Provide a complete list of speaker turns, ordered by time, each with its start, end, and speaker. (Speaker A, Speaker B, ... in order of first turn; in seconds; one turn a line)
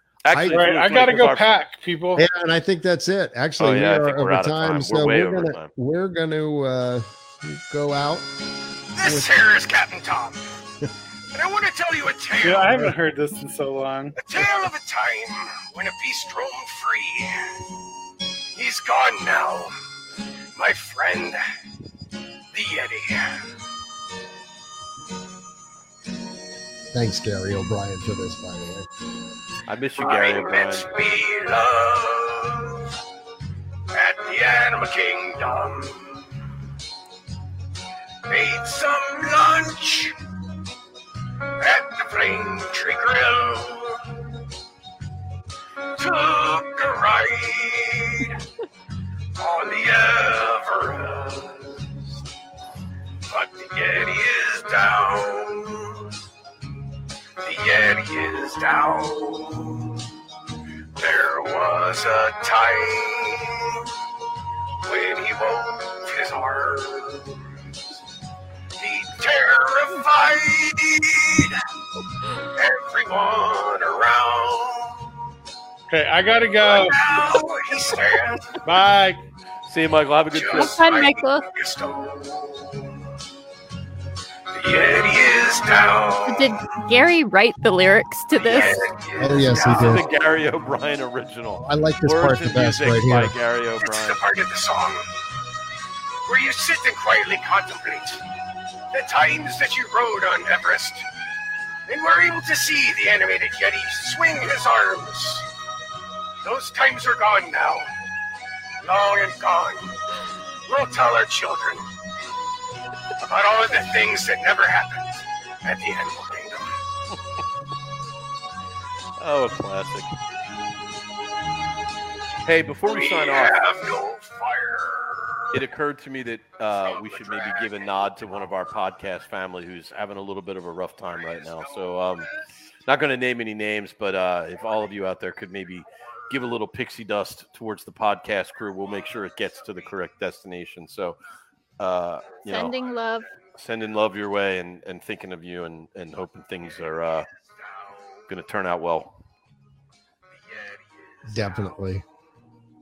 Speaker A: 0.2-1.5
Speaker B: 0.3-0.6
Speaker C: 0.5-2.2
Speaker B: 2.2-8.3
Speaker A: 3.6-5.7
Speaker D: 8.9-10.4
Speaker B: 9.0-9.3
Speaker D: 11.3-12.9
Speaker C: 12.4-14.2
Speaker D: 14.2-17.6
Speaker D: 18.6-19.7
Speaker D: 20.6-21.4
Speaker D: 22.5-23.5
Speaker B: 26.9-28.9
Speaker A: 29.7-30.9
Speaker D: 30.0-33.0
Speaker D: 33.9-36.3
Speaker D: 38.3-40.2
Speaker D: 41.6-44.3
Speaker D: 46.0-48.4
Speaker D: 49.4-52.1
Speaker D: 53.3-56.1
Speaker D: 57.4-60.1
Speaker D: 61.0-63.9
Speaker D: 64.8-68.0
Speaker D: 68.8-71.6
Speaker D: 72.5-75.1
Speaker C: 75.9-77.0
Speaker D: 76.6-78.6
Speaker C: 78.6-79.2
Speaker A: 79.7-80.8
Speaker D: 80.3-83.0
Speaker E: 80.5-81.5
Speaker D: 84.5-86.6
Speaker E: 86.3-88.8
Speaker D: 88.4-90.2
Speaker A: 88.5-88.8
Speaker B: 89.2-90.1
Speaker A: 89.6-94.2
Speaker B: 91.6-93.3
Speaker D: 93.8-95.0
Speaker D: 96.3-98.2
Speaker D: 98.9-101.1
Speaker D: 101.9-105.5
Speaker D: 106.4-107.9
Speaker D: 108.8-110.0
Speaker D: 110.7-111.9
Speaker D: 113.2-116.7
Speaker A: 119.2-120.1
Speaker A: 122.5-123.6
Speaker D: 122.8-125.6
Speaker A: 125.5-132.3
Speaker D: 127.0-128.3
Speaker D: 131.2-132.3
Speaker A: 132.9-141.2
Speaker A: 141.8-142.7
Speaker E: 142.5-143.3
Speaker A: 143.6-147.3
Speaker D: 147.6-148.2
Speaker A: 148.3-149.1
Speaker D: 150.4-151.8
Speaker B: 151.3-152.0